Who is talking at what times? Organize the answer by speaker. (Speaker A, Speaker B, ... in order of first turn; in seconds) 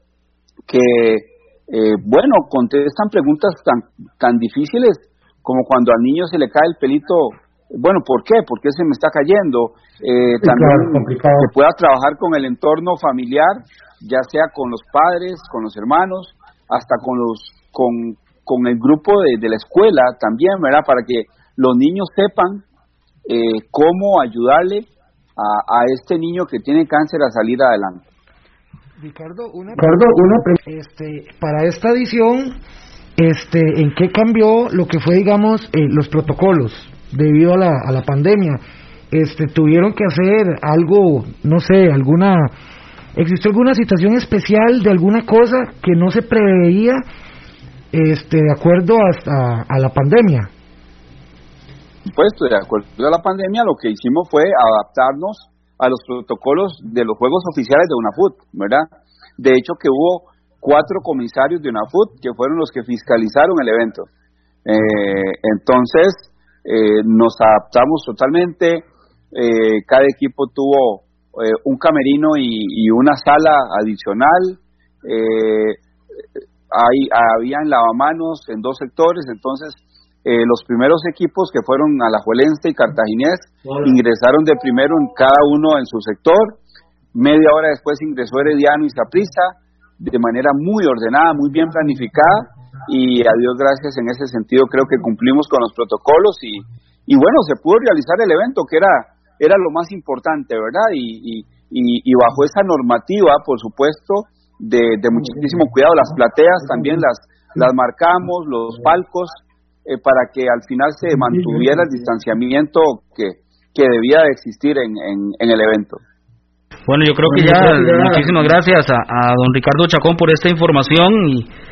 Speaker A: 0.7-22.6, 23.3-28.0, 52.1-58.9, 59.4-64.1, 64.7-75.8, 76.7-86.6, 87.1-116.0
Speaker B: 10.6-11.4, 29.0-32.6, 33.2-42.5, 43.1-47.0, 47.9-50.5
Speaker C: 116.9-121.5